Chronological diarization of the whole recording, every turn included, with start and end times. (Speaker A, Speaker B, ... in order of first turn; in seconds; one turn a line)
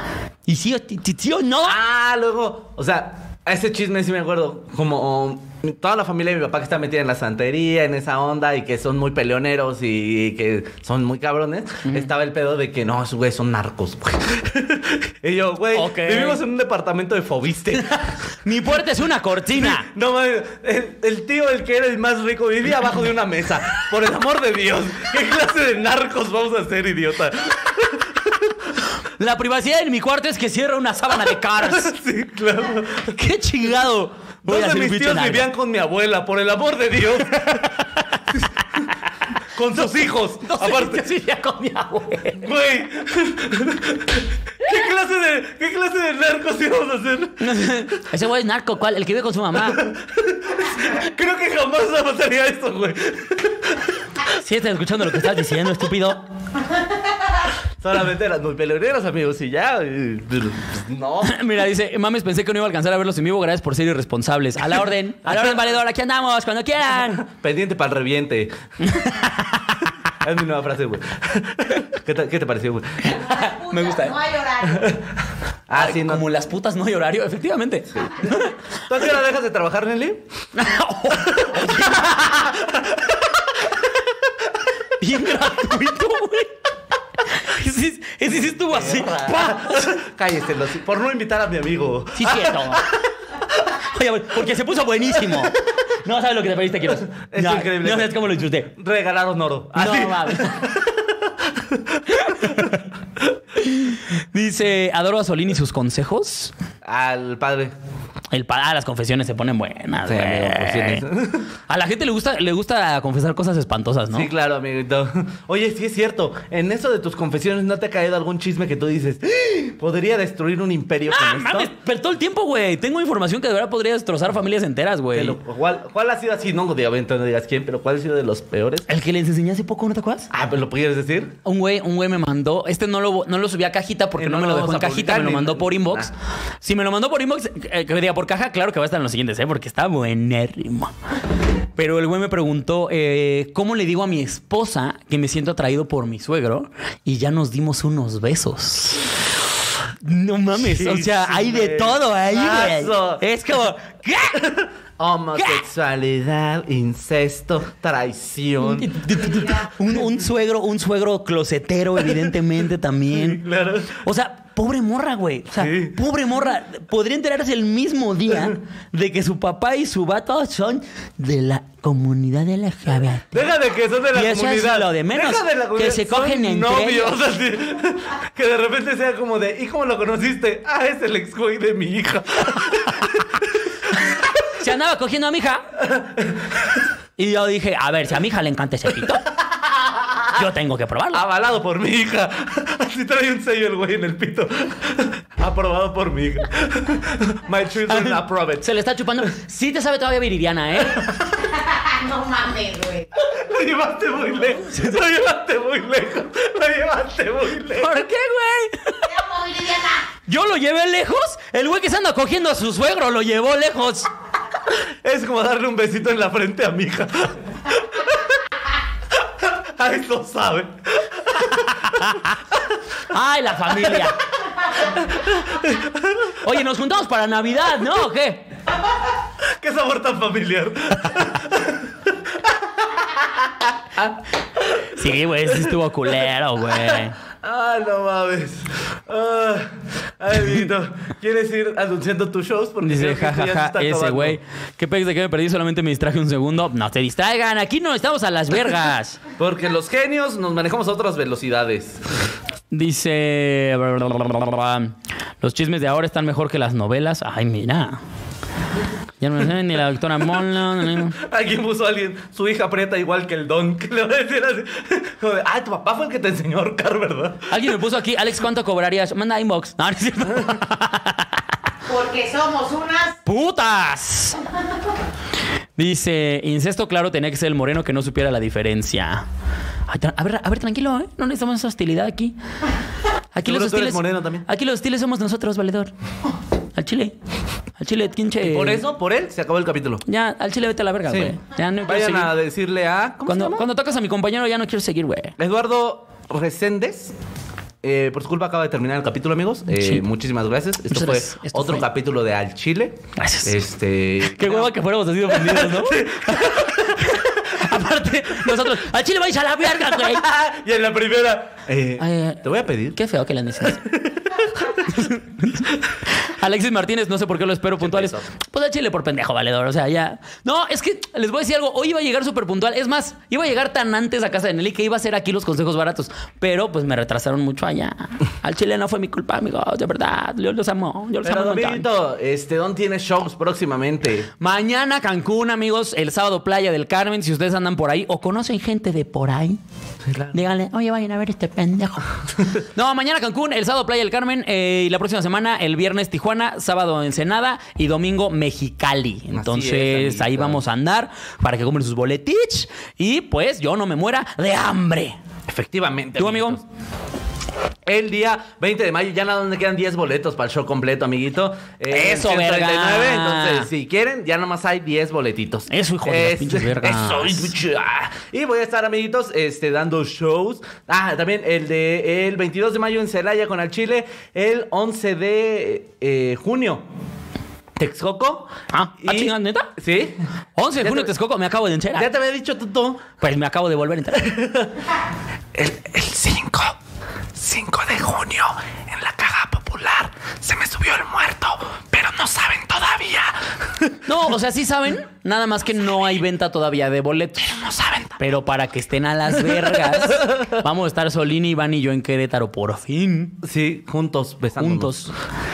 Speaker A: 0.5-1.8
Speaker B: 1.6-18.0
Speaker A: 15.7-16.4
Speaker A: 18.4-19.9
Speaker B: 19.5-28.5
Speaker A: 29.2-31.9
Speaker B: 31.6-33.2
Speaker A: 33.1-35.5
Speaker B: 34.4-37.7
Speaker A: 37.6-38.0
Speaker B: 39.5-41.0
Speaker A: 39.7-42.5
Speaker B: 42.4-47.5
Speaker A: 47.4-49.8
Speaker B: 49.6-53.9
Speaker A: 54.2-56.2
Speaker B: 57.8-61.4
Speaker A: 61.2-67.2
Speaker B: 65.3-65.5
Speaker B: 67.2-68.5
Speaker A: 68.8-69.9
Speaker B: 70.2-73.1
Speaker C: 73.0-74.9
Speaker A: 73.3-74.2
Speaker B: 75.7-76.2
Speaker A: 75.7-78.5
Speaker B: 77.9-80.2
Speaker A: 80.5-82.6
Speaker B: 81.4-81.9
Speaker B: 82.6-83.1
Speaker A: 85.0-86.5
Speaker A: 87.3-90.0
Speaker B: 88.5-92.9
Speaker A: 92.1-92.8
Speaker A: 93.9-98.7
Speaker B: 97.2-102.0
Speaker A: 99.8-100.7
Speaker A: 102.1-102.8
Speaker A: 103.5-106.5
Speaker B: 106.8-107.7
Speaker A: 108.3-111.0
Speaker B: 110.1-111.5
Speaker A: 111.7-114.3
Speaker B: 114.1-121.7
Speaker A: 121.1-125.4
Speaker B: 125.1-128.9
Speaker A: 128.9-130.3
Speaker B: 130.3-131.4
Speaker A: 131.4-140.9
Speaker B: 134.2-136.1
Speaker A: 141.8-149.1
Speaker A: 150.0-154.6
Speaker B: 150.6-153.2
Speaker B: 154.3-159.7
Speaker A: 155.3-155.6
Speaker A: 158.6-163.4
Speaker B: 163.1-164.1
Speaker A: 164.0-173.5
Speaker B: 165.6-166.0
Speaker B: 173.3-183.1
Speaker A: 174.1-177.2
Speaker A: 184.5-185.6
Speaker B: 185.8-186.3
Speaker A: 187.2-189.3
Speaker A: 190.3-191.2
Speaker B: 191.1-198.7
Speaker A: 197.9-201.0
Speaker C: 201.3-203.1
Speaker B: 203.3-207.9
Speaker A: 207.8-209.1
Speaker C: 209.0-210.1
Speaker A: 210.3-214.1
Speaker B: 215.0-218.3
Speaker B: 219.4-221.7
Speaker A: 222.0-222.2
Speaker A: 223.1-224.2
Speaker B: 223.8-224.1
Speaker B: 225.2-225.9
Speaker A: 226.4-228.4
Speaker B: 229.6-231.9
Speaker B: 232.8-234.9
Speaker A: 234.9-237.2
Speaker B: 236.7-244.4
Speaker A: 242.8-249.2
Speaker B: 249.4-252.0
Speaker A: 252.7-258.0
Speaker A: 259.2-261.2
Speaker B: 261.0-267.5
Speaker A: 267.5-271.3
Speaker C: 271.9-273.2
Speaker A: 273.2-274.4
Speaker A: 275.8-279.2
Speaker A: 279.9-282.3
Speaker A: 283.3-285.9
Speaker B: 283.4-284.5
Speaker A: 286.7-287.1
Speaker A: 287.8-288.8
Speaker B: 288.4-290.0
Speaker A: 290.1-292.3
Speaker B: 291.1-293.7
Speaker A: 293.3-295.3
Speaker B: 295.4-297.1
Speaker B: 297.8-304.7
Speaker A: 299.8-300.0
Speaker A: 300.9-301.8
Speaker A: 303.2-303.6
Speaker A: 304.3-310.2
Speaker B: 305.2-307.0
Speaker B: 310.0-313.0
Speaker A: 312.0-313.8
Speaker B: 313.6-314.8
Speaker A: 314.9-331.9
Speaker B: 317.8-318.2
Speaker B: 331.2-334.3
Speaker A: 334.4-339.6
Speaker B: 340.1-340.4
Speaker A: 340.3-342.0
Speaker A: 342.6-355.2
Speaker B: 349.3-350.6
Speaker B: 355.5-356.6
Speaker A: 356.2-356.6
Speaker B: 357.9-376.8
Speaker A: 361.9-363.7
Speaker A: 365.7-367.5
Speaker B: 377.8-380.2
Speaker A: 378.7-379.7
Speaker A: 380.6-382.1
Speaker B: 380.8-381.1
Speaker B: 381.9-383.1
Speaker A: 383.2-384.3
Speaker B: 384.1-384.7
Speaker B: 385.5-386.8
Speaker B: 387.4-394.1
Speaker A: 394.0-403.4
Speaker B: 397.7-398.2
Speaker B: 400.0-400.5
Speaker B: 403.4-404.9
Speaker A: 404.6-405.1